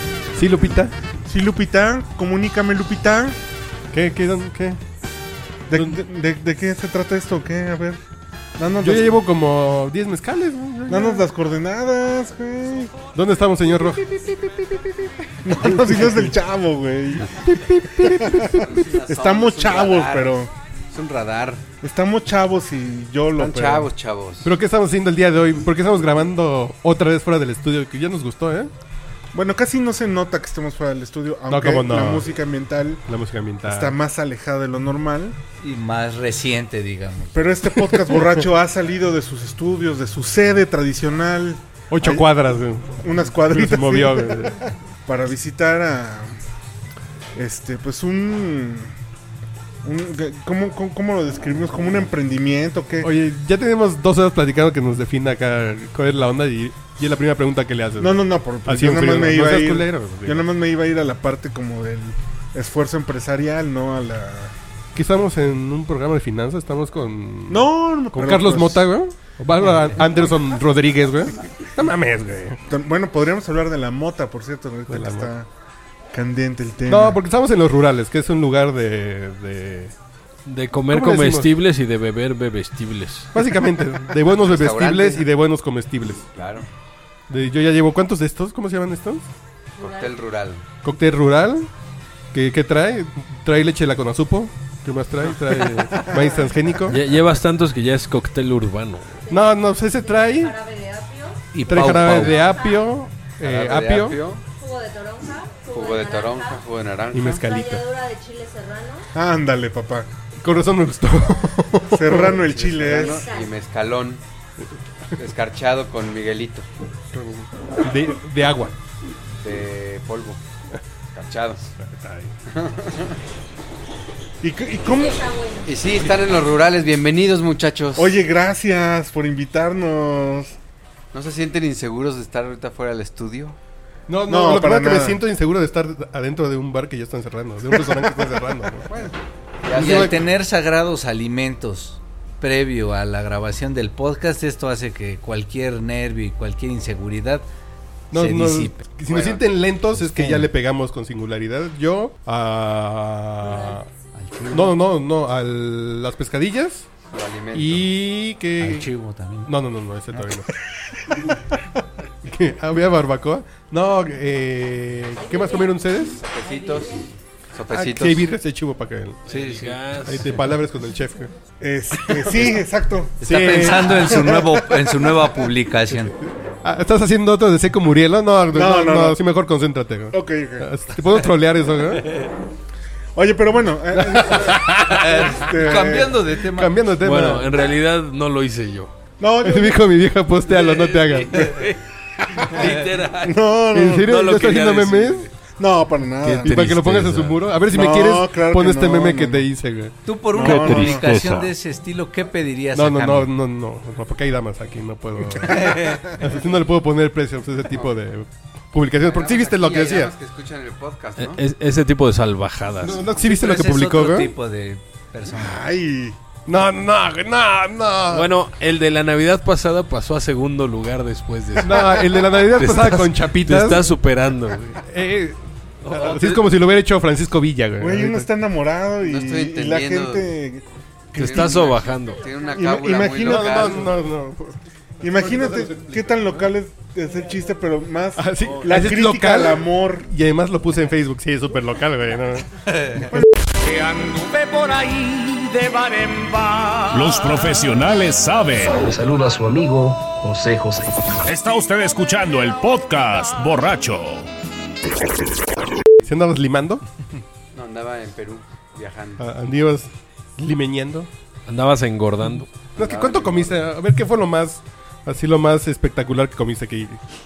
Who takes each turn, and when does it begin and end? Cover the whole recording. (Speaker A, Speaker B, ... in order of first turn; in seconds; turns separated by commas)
Speaker A: 0.3-0.9, Speaker B: 1.3-3.4, Speaker A: 3.9-4.8, Speaker B: 5.7-8.0, Speaker A: 5.7-6.0, Speaker B: 8.6-9.2, Speaker A: 8.8-11.3, Speaker B: 10.9-12.9, Speaker A: 13.1-16.4, Speaker B: 15.4-17.3, Speaker A: 17.2-18.9, Speaker B: 18.0-20.5, Speaker C: 18.6-20.3, Speaker C: 20.9-21.6, Speaker B: 21.8-23.9, Speaker C: 23.4-24.5, Speaker A: 24.4-28.7, Speaker B: 29.3-33.0, Speaker A: 31.5-32.3, Speaker A: 33.1-34.0, Speaker B: 33.6-35.4, Speaker D: 35.6-37.3, Speaker B: 37.3-42.3, Speaker A: 37.7-38.5, Speaker A: 41.9-44.6, Speaker B: 43.0-44.5, Speaker B: 45.1-46.3, Speaker B: 47.4-48.9, Speaker B: 49.8-53.1, Speaker A: 53.0-60.5, Speaker B: 58.0-64.5, Speaker A: 65.0-72.6, Speaker B: 67.5-68.8, Speaker B: 72.7-75.5, Speaker A: 74.9-75.3, Speaker B: 76.1-77.2, Speaker A: 76.9-79.9, Speaker E: 80.5-83.3, Speaker A: 80.9-81.5, Speaker A: 83.3-86.2, Speaker C: 84.4-85.3, Speaker C: 86.3-86.7, Speaker A: 87.3-89.3, Speaker F: 89.8-90.1, Speaker C: 89.8-90.6, Speaker A: 90.8-91.7, Speaker A: 92.3-97.0, Speaker E: 96.9-99.2, Speaker A: 99.3-100.6, Speaker F: 100.1-101.6, Speaker D: 101.5-102.4, Speaker A: 101.7-104.2, Speaker F: 102.3-102.8, Speaker C: 103.4-104.4, Speaker F: 104.5-106.6, Speaker C: 105.7-107.5, Speaker A: 107.1-107.8, Speaker F: 107.3-109.1, Speaker B: 109.2-110.1, Speaker A: 110.4-112.4, Speaker B: 111.9-113.2, Speaker C: 112.5-114.2, Speaker F: 113.0-113.5, Speaker C: 115.2-116.7, Speaker A: 117.1-118.8, Speaker C: 119.4-120.4, Speaker C: 121.1-121.6, Speaker A: 121.8-122.3, Speaker C: 122.5-123.2, Speaker B: 124.4-125.3, Speaker F: 125.3-125.6, Speaker C: 125.6-128.1, Speaker B: 128.0-130.6, Speaker C: 131.1-133.6, Speaker A: 134.1-138.9, Speaker B: 134.3-135.2, Speaker B: 137.7-138.2, Speaker B: 138.8-139.2, Speaker C: 139.6-140.1, Speaker D: 139.7-147.4, Speaker A: 139.7-140.2, Speaker A: 148.1-153.9, Speaker D: 148.1-148.8, Speaker C: 149.1-149.4, Speaker D: 150.0-150.5, Speaker D: 154.1-154.7, Speaker A: 154.5-156.9, Speaker C: 157.1-157.9, Speaker A: 157.5-158.9, Speaker D: 158.6-159.5, Speaker A: 159.4-160.5, Speaker A: 162.2-166.2, Speaker C: 166.2-168.3, Speaker F: 166.4-166.7, Speaker A: 167.7-169.2, Speaker E: 169.3-170.4, Speaker D: 169.3-169.8, Speaker A: 170.1-171.3, Speaker B: 171.6-174.5, Speaker A: 172.1-172.6, Speaker D: 173.2-176.1, Speaker A: 173.2-174.3, Speaker A: 175.9-182.2, Speaker B: 178.5-179.2, Speaker B: 180.1-180.7, Speaker B: 183.2-186.3, Speaker A: 183.9-185.2, Speaker D: 184.9-186.7, Speaker A: 186.5-187.6, Speaker E: 187.0-188.9, Speaker B: 189.2-189.8, Speaker A: 189.4-191.5, Speaker E: 190.6-191.8, Speaker B: 191.4-191.7, Speaker E: 192.4-193.5, Speaker B: 193.2-194.1, Speaker A: 193.7-195.3, Speaker E: 194.1-195.3, Speaker B: 195.6-196.7, Speaker E: 196.2-197.5, Speaker A: 196.3-199.9, Speaker B: 197.7-199.5, Speaker D: 200.1-203.3, Speaker B: 200.3-201.1, Speaker G: 200.4-201.5, Speaker A: 202.7-210.1, Speaker D: 205.6-206.0, Speaker C: 209.0-211.4, Speaker E: 211.2-213.0, Speaker A: 212.8-214.3, Speaker D: 213.2-215.6, Speaker B: 215.3-216.2, Speaker A: 216.5-218.3, Speaker E: 218.1-224.8, Speaker A: 221.6-223.9, Speaker A: 224.8-228.3, Speaker E: 225.8-226.4, Speaker B: 227.8-231.7, Speaker C: 229.0-230.3, Speaker C: 231.2-233.9, Speaker E: 231.2-232.2, Speaker B: 232.5-233.9, Speaker A: 233.2-236.5, Speaker B: 235.0-240.1, Speaker A: 238.2-243.3, Speaker D: 242.8-243.0, Speaker H: 243.6-248.8, Speaker G: 248.7-251.2, Speaker H: 251.2-254.3, Speaker A: 256.0-256.8, Speaker C: 257.5-259.2, Speaker A: 259.2-261.1, Speaker E: 261.5-262.5, Speaker A: 262.8-267.0, Speaker C: 262.8-263.6